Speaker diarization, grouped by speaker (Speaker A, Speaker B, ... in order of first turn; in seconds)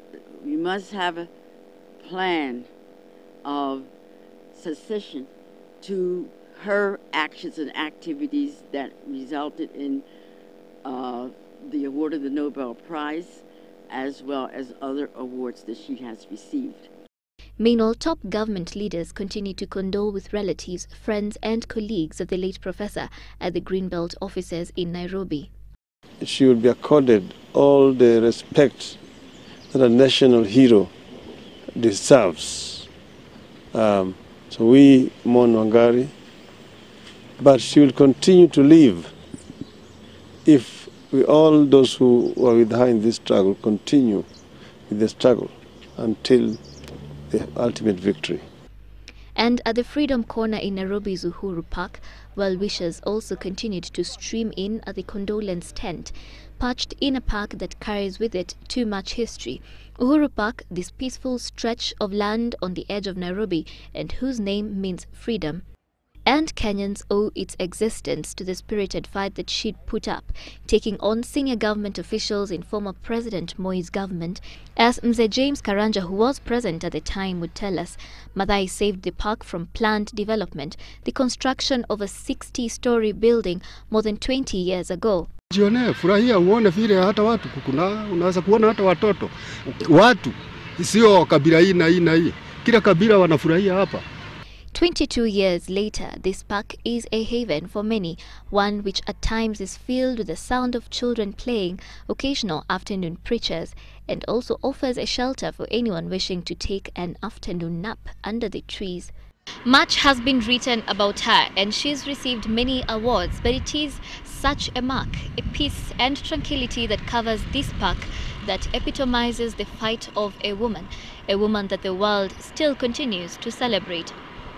Speaker A: 0.4-1.3, 2.0-2.7, 3.5-3.9, 4.5-5.3, 5.8-10.1, 10.8-16.9
Speaker B: 17.6-25.5, 49.4-65.6, 66.3-85.3, 94.7-109.1, 109.7-124.2
Speaker C: 26.2-29.0, 29.7-30.9, 31.8-32.9, 33.7-36.1, 37.4-39.1, 40.5-44.3, 44.9-46.6, 47.3-48.5
Speaker D: 85.5-94.0